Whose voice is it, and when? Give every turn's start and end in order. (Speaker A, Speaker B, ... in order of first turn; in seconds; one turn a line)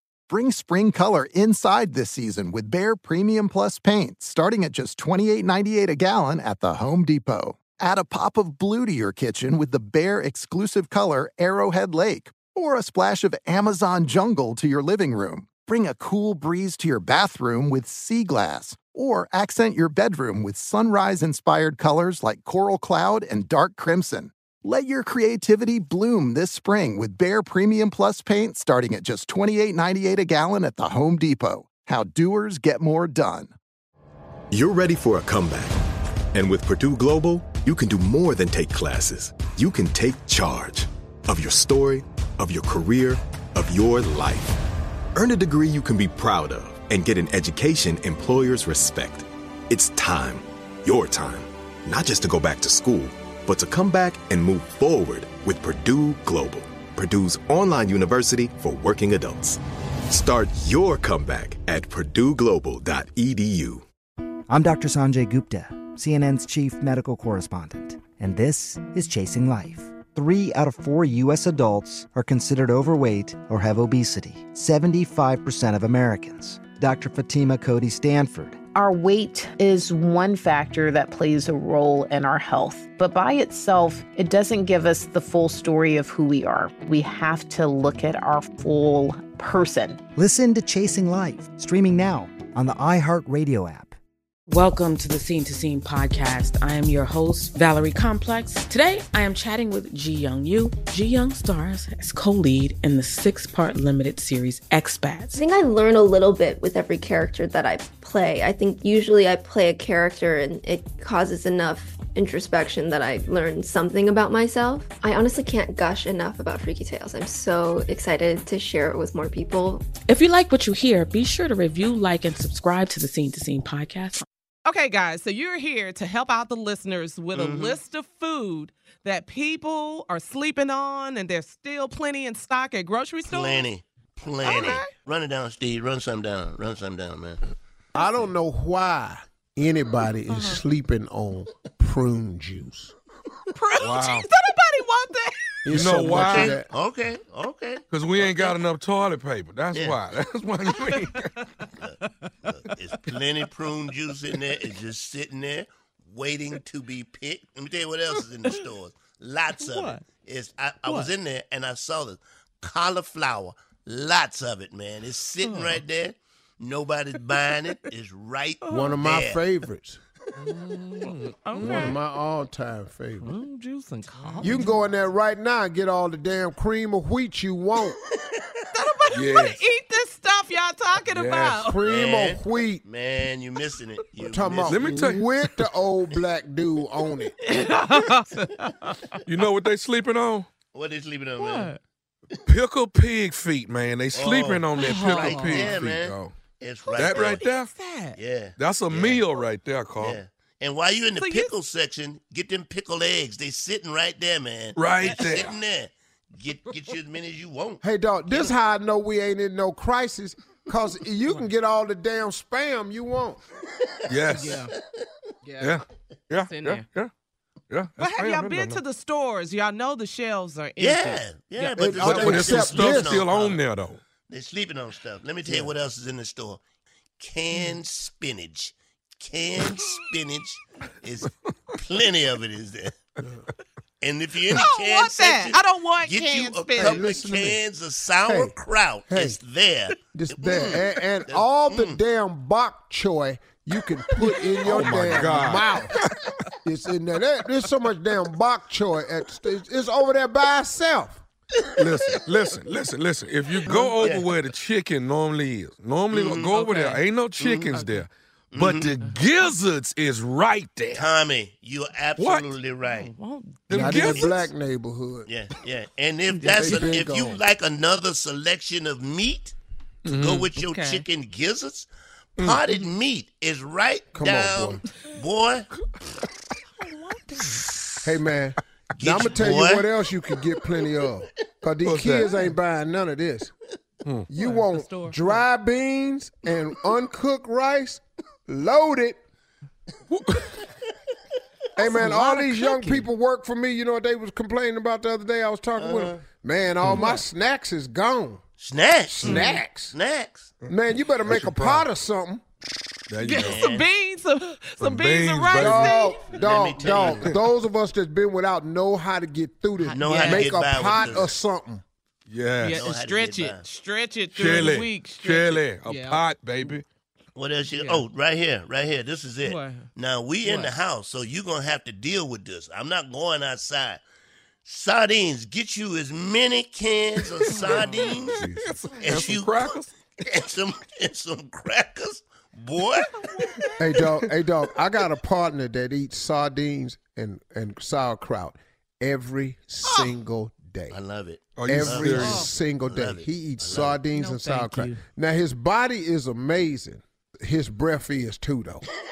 Speaker A: 0.3-33.5
Speaker B: 34.5-35.8
Speaker B: 36.3-44.6
Speaker B: 45.1-63.8
Speaker C: 64.5-78.6
Speaker D: 78.7-90.0
Speaker C: 90.2-93.9
Speaker E: 94.5-105.3
Speaker F: 105.3-119.9
Speaker E: 120.1-124.2
Speaker G: 124.7-133.7
Speaker H: 127.3-127.8
Speaker H: 133.2-137.4
Speaker G: 134.4-134.9
Speaker I: 137.9-142.9
Speaker G: 140.3-140.6
Speaker G: 143.5-145.7
Speaker J: 143.8-144.3
Speaker I: 145.6-146.7
Speaker J: 145.7-146.6
Speaker H: 146.1-148.5
Speaker J: 147.9-151.3
Speaker H: 149.7-150.0
Speaker G: 150.8-151.0
Speaker H: 151.8-169.4
Speaker G: 159.6-160.1
Speaker G: 160.8-161.1
Speaker G: 165.4-165.8
Speaker G: 168.6-169.0
Speaker I: 168.7-170.0
Speaker G: 170.6-171.9
Speaker J: 171.0-171.9
Speaker I: 171.6-173.3
Speaker G: 173.2-174.8
Speaker I: 174.4-178.0
Speaker G: 178.7-181.8
Speaker J: 179.1-179.6
Speaker J: 181.1-181.6
Speaker I: 181.6-182.8
Speaker H: 181.8-185.2
Speaker I: 184.2-187.3
Speaker J: 184.7-185.3
Speaker G: 187.4-189.2
Speaker J: 189.2-190.5
Speaker H: 190.7-191.8
Speaker G: 191.4-191.8
Speaker J: 192.4-196.3
Speaker H: 194.1-197.4
Speaker G: 194.8-195.7
Speaker J: 196.9-197.7
Speaker G: 197.4-198.2
Speaker H: 198.1-199.3
Speaker J: 198.6-200.2
Speaker H: 200.0-208.5
Speaker G: 201.1-201.5
Speaker J: 204.7-205.6
Speaker I: 207.8-213.4
Speaker H: 213.8-214.2
Speaker J: 214.1-214.7
Speaker G: 214.3-214.7
Speaker G: 215.4-215.8
Speaker J: 215.6-217.1
Speaker G: 216.4-216.8
Speaker J: 217.7-218.8
Speaker G: 218.0-221.8
Speaker H: 220.8-223.6
Speaker I: 221.8-223.2
Speaker J: 221.9-224.0
Speaker H: 224.3-226.6
Speaker I: 225.4-225.7
Speaker H: 227.2-232.9
Speaker H: 234.0-242.0
Speaker G: 234.5-237.0
Speaker I: 236.8-237.6
Speaker I: 238.2-239.4
Speaker I: 240.1-245.9
Speaker J: 244.6-246.3
Speaker I: 246.6-251.2
Speaker J: 251.8-261.1
Speaker H: 254.0-254.3
Speaker H: 256.1-256.7
Speaker G: 256.6-257.0
Speaker H: 257.4-257.9
Speaker G: 257.7-258.0
Speaker H: 258.5-259.0
Speaker H: 260.9-263.1
Speaker J: 262.2-262.5
Speaker G: 262.8-264.2
Speaker J: 263.7-264.4
Speaker I: 263.7-265.3
Speaker H: 263.8-264.2
Speaker H: 265.2-269.5
Speaker G: 266.4-266.9
Speaker I: 266.4-267.4
Speaker J: 270.0-270.5
Speaker H: 270.2-275.7
Speaker G: 270.6-271.1
Speaker J: 272.4-272.6
Speaker I: 274.1-274.8
Speaker G: 276.9-277.6
Speaker I: 278.0-283.5
Speaker H: 279.0-279.9
Speaker J: 281.8-282.4
Speaker J: 284.0-284.3
Speaker I: 284.3-289.2
Speaker G: 284.4-285.4
Speaker J: 290.1-290.4
Speaker I: 291.8-298.4
Speaker G: 292.0-292.8
Speaker H: 295.8-296.2
Speaker J: 296.9-297.1
Speaker H: 298.6-300.5
Speaker I: 299.1-299.9
Speaker G: 299.2-299.6
Speaker J: 300.6-301.9
Speaker I: 300.7-302.4
Speaker J: 303.1-303.7
Speaker G: 303.2-306.3
Speaker H: 303.3-303.9
Speaker J: 304.8-306.0
Speaker I: 305.5-311.8
Speaker H: 306.2-307.4
Speaker G: 309.8-310.4
Speaker H: 309.9-311.4
Speaker J: 312.3-312.8
Speaker G: 312.6-316.2
Speaker H: 312.6-313.6
Speaker J: 314.3-316.9
Speaker H: 317.3-324.0
Speaker G: 317.7-318.1
Speaker G: 319.4-319.9
Speaker G: 320.4-320.7
Speaker H: 324.6-333.2
Speaker J: 327.4-329.9
Speaker I: 333.8-341.0
Speaker J: 334.0-334.3
Speaker G: 339.9-340.1
Speaker H: 340.9-344.1
Speaker J: 341.6-342.4
Speaker I: 341.6-348.9
Speaker G: 342.2-342.5
Speaker G: 344.1-345.0